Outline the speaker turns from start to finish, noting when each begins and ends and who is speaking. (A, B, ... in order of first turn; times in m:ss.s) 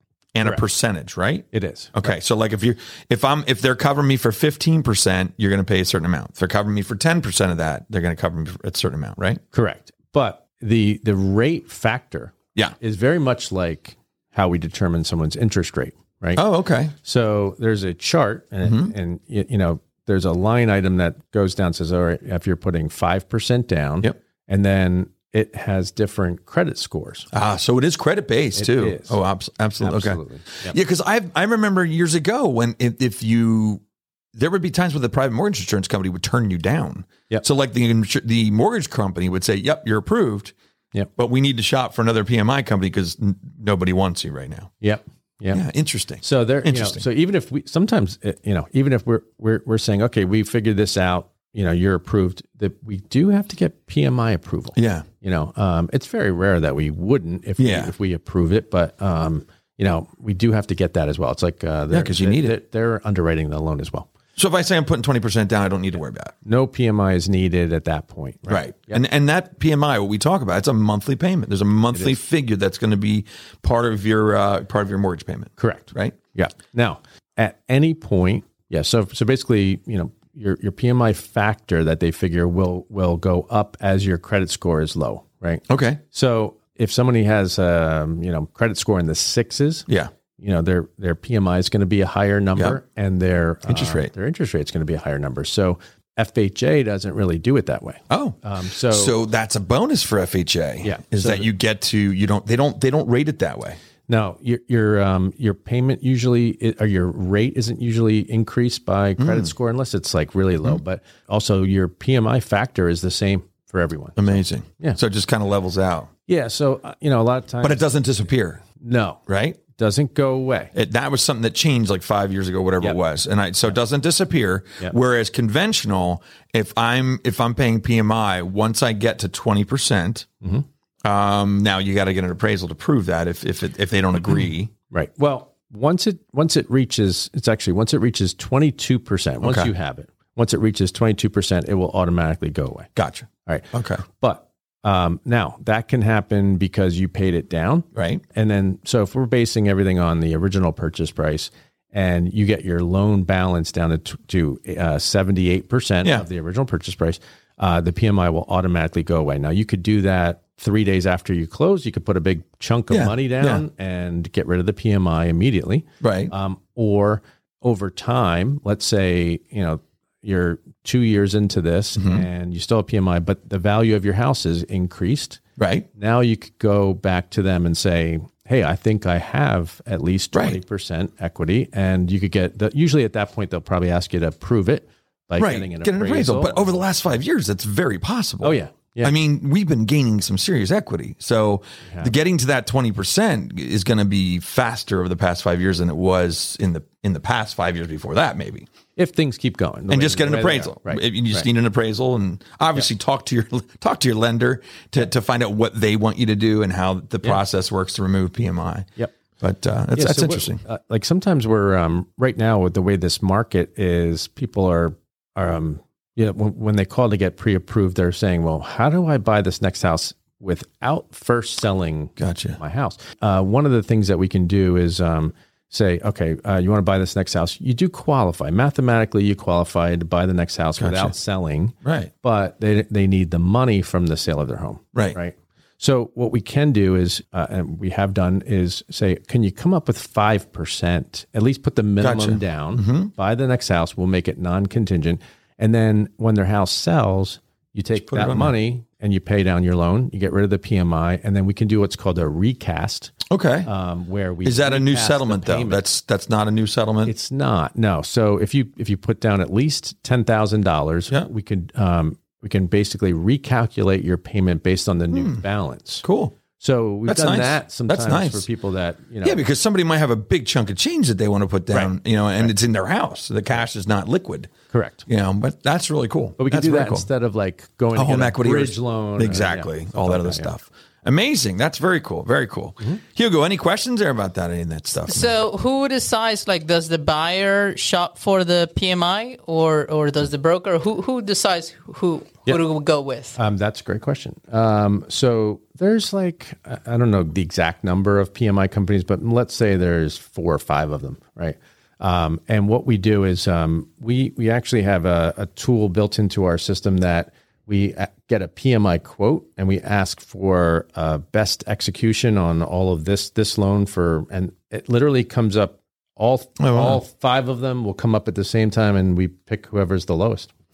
0:00.4-0:09.4 A
0:01.5-0:02.1 B
0:09.5-0:16.4 B
0:16.4-0:16.9 A
0:17.0-0:27.3 B
0:18.6-0:18.9 A
0:27.3-0:33.8 A
0:28.6-0:29.2 B
0:29.8-0:30.7 B
0:34.4-0:40.5 A
0:41.2-0:44.7 A
0:44.8-0:45.7 B
0:45.5-0:47.0 A
0:46.2-1:04.1 B
0:54.8-0:55.1 A
0:57.6-0:57.9 A
1:01.9-1:02.6 A
1:04.4-1:06.3 A
1:06.4-1:09.0 B
1:08.5-1:16.2 A
1:15.6-1:29.9 B
1:25.7-1:26.0 A
1:30.4-1:39.2 B
1:33.7-1:34.1 A
1:38.1-1:38.4 A
1:38.9-1:43.8 A
1:40.8-1:41.5 B
1:44.1-1:55.0 B
1:49.2-1:49.5 A
1:54.2-1:56.1 A
1:56.3-1:57.9 B
1:57.6-1:58.6 A
1:58.7-2:00.7 B
1:59.3-1:59.6 A
2:00.7-2:10.3 A
2:11.0-2:14.7 A
2:14.9-2:22.9 B
2:19.4-2:19.7 A
2:23.0-2:24.0 A
2:23.4-2:55.4 B
2:27.9-2:28.2 A
2:42.9-2:43.6 A
2:46.0-2:46.3 A
2:52.0-2:52.2 A
2:55.6-2:55.9 A
2:56.0-3:06.8 B
3:00.3-3:00.6 A
3:05.4-3:18.7 A
3:08.4-3:09.2 B
3:19.0-3:21.5 B
3:19.9-3:28.9 A
3:29.4-3:30.6 A
3:29.9-4:13.1 B
3:42.2-3:42.6 A
3:50.8-3:51.1 A
3:51.8-3:52.1 A
4:02.0-4:03.1 A
4:08.0-4:08.6 A
4:13.3-4:13.7 A
4:13.6-4:15.8 B
4:14.4-4:17.1 A
4:17.0-4:26.0 B
4:25.1-4:25.4 A
4:26.0-4:26.4 A
4:26.6-4:29.4 B
4:27.1-4:28.5 A
4:29.2-4:34.5 A
4:31.7-4:32.5 B
4:34.7-4:35.0 B
4:35.1-4:37.1 A
4:36.4-4:40.6 B
4:37.9-4:45.4 A
4:45.1-4:53.4 C
4:53.4-5:20.5 B
5:16.6-5:17.0 A